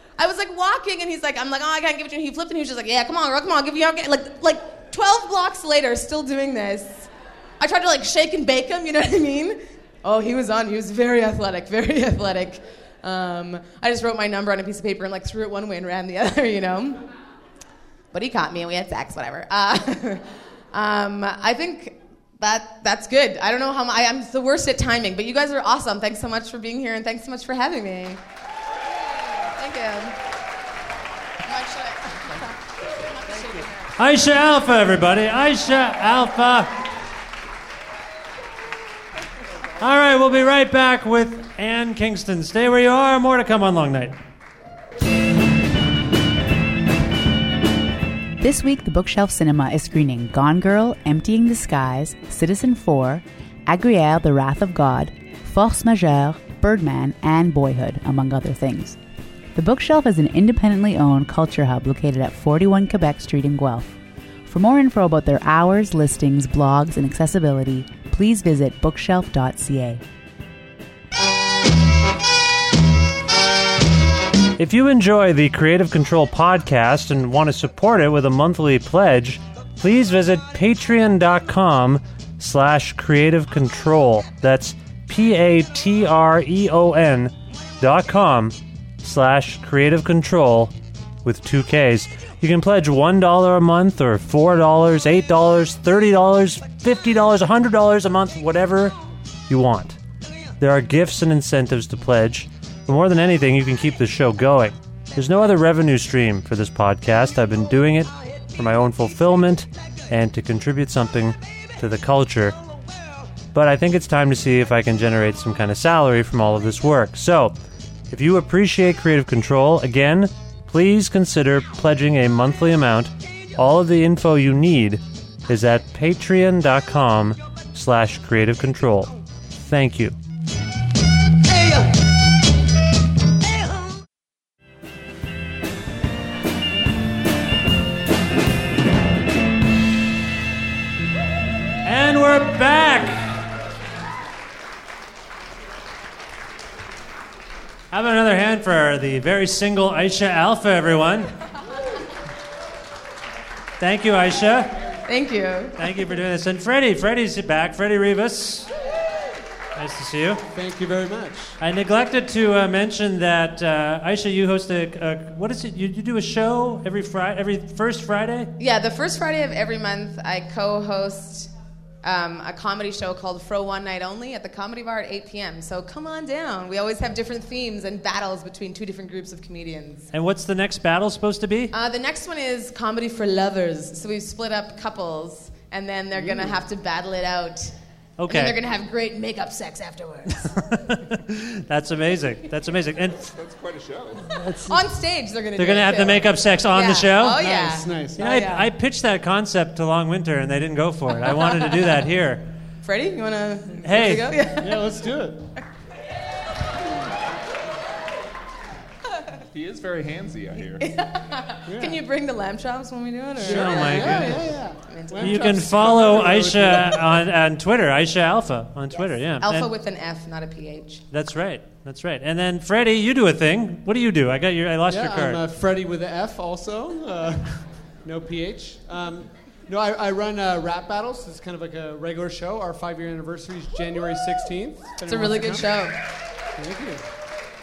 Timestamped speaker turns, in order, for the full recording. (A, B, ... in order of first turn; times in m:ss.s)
0:00.2-0:17.0 A
0:18.1-0:28.2 A
0:29.0-0:30.2 A
0:31.4-0:33.9 A
0:34.0-0:36.9 B
0:39.8-0:44.2 B
0:48.4-0:59.0 C
0:59.5-1:10.0 C
1:14.6-1:30.7 B
1:31.2-1:39.0 B
1:39.5-1:40.0 B
1:40.6-1:52.6 B
1:53.5-1:57.5 B
1:58.1-2:10.2 B
2:21.8-2:23.4 B
2:27.9-2:31.3 B
2:33.8-2:34.9 B
2:35.0-2:35.8 A
2:35.8-2:38.7 B
2:39.8-2:40.4 B
2:40.5-2:41.6 D
2:41.6-2:48.5 B
2:48.6-2:51.5 A
2:52.0-3:00.1 A
3:00.1-3:01.7 B
3:01.7-3:07.7 A
3:06.2-3:06.5 D
3:08.2-3:08.6 B
3:08.3-3:10.6 A
3:10.4-3:13.3 B
3:13.3-3:14.4 E
3:14.4-3:14.7 B
3:14.6-3:18.7 A
3:15.6-3:17.5 B
3:17.4-3:18.2 D
3:18.2-3:22.5 B
3:21.3-3:21.6 A
3:22.8-3:24.8 A
3:23.8-3:24.2 B
3:24.5-3:25.4 D
3:29.5-3:30.9 E
3:30.6-3:35.5 A
3:31.7-3:32.0 D
3:33.4-3:37.2 D
3:33.4-3:34.5 B
3:35.2-3:39.7 B
3:39.3-3:41.0 A
3:41.1-3:45.4 B
3:44.9-3:55.9 D
3:55.0-3:56.0 A
3:56.6-3:57.0 D